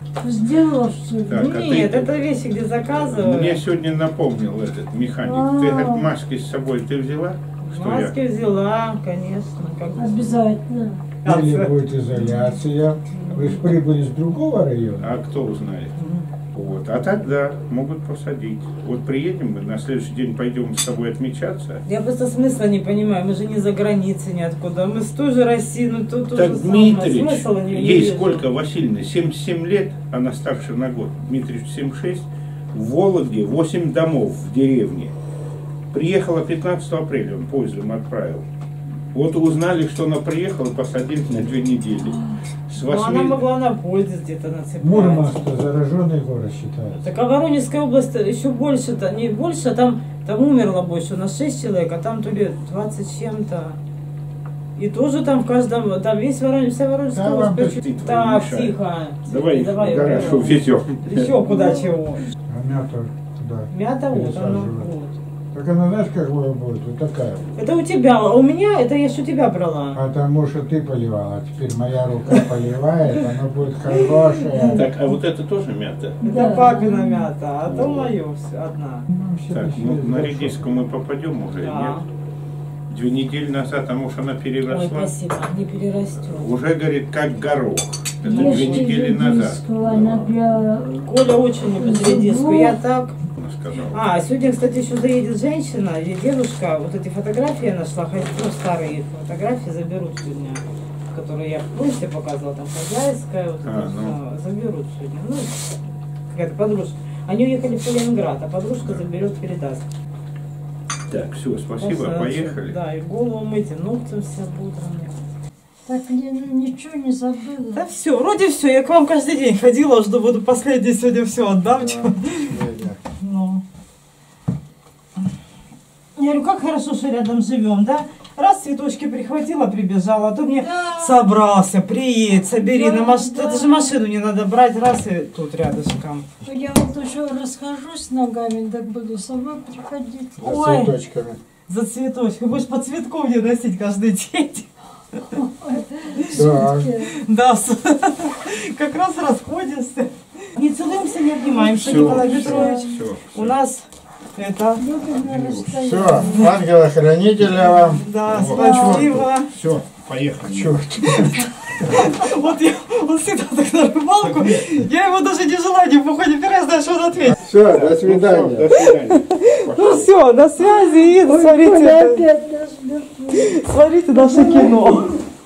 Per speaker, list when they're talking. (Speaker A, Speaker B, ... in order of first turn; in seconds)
Speaker A: 0.2-1.4, 5.2-6.1, 10.0-11.0, 76.2-77.3, 88.3-91.1, 91.6-92.8, 115.8-117.8, 130.6-131.2, 132.6-133.9, 136.4-140.4, 145.4-147.1, 151.5-152.9, 154.8-156.5, 158.6-159.0, 170.6-173.6, 174.1-175.0
Speaker B: 1.3-2.1, 2.9-8.1, 15.0-15.9, 16.5-21.8, 26.3-35.1, 35.9-38.5, 39.1-43.4, 57.8-58.7, 59.3-61.3, 74.7-76.2, 77.7-78.1, 79.5-82.0, 82.9-85.1, 86.4-90.3, 93.4-94.0, 103.6-104.2, 111.1-112.8, 151.8-153.5, 155.1-155.7, 158.3-160.8, 167.5-170.1
Speaker C: 1.3-3.6, 7.6-10.3, 11.2-11.8, 13.1-13.8, 15.9-16.3, 21.9-28.4, 42.8-45.4, 47.0-53.8, 54.8-62.2, 63.7-65.2, 67.5-70.0, 73.0-74.8, 76.2-79.0, 81.6-82.0, 84.7-86.5, 88.2-88.9, 91.0-93.1, 93.9-105.7, 106.3-109.8, 111.8-115.2, 117.7-122.6, 123.1-123.6, 126.2-136.2, 140.4-141.0, 141.7-144.7, 146.0-154.8, 157.5-159.5, 161.8-167.4, 169.1-172.2, 173.3-175.2
Speaker D: 11.2-15.1, 44.8-47.1, 57.1-57.8, 62.5-64.9, 65.5-67.4, 69.9-74.8, 79.1-80.6, 121.7-123.0, 140.4-141.4, 146.3-146.9, 155.8-158.0, 160.5-161.4, 167.4-168.7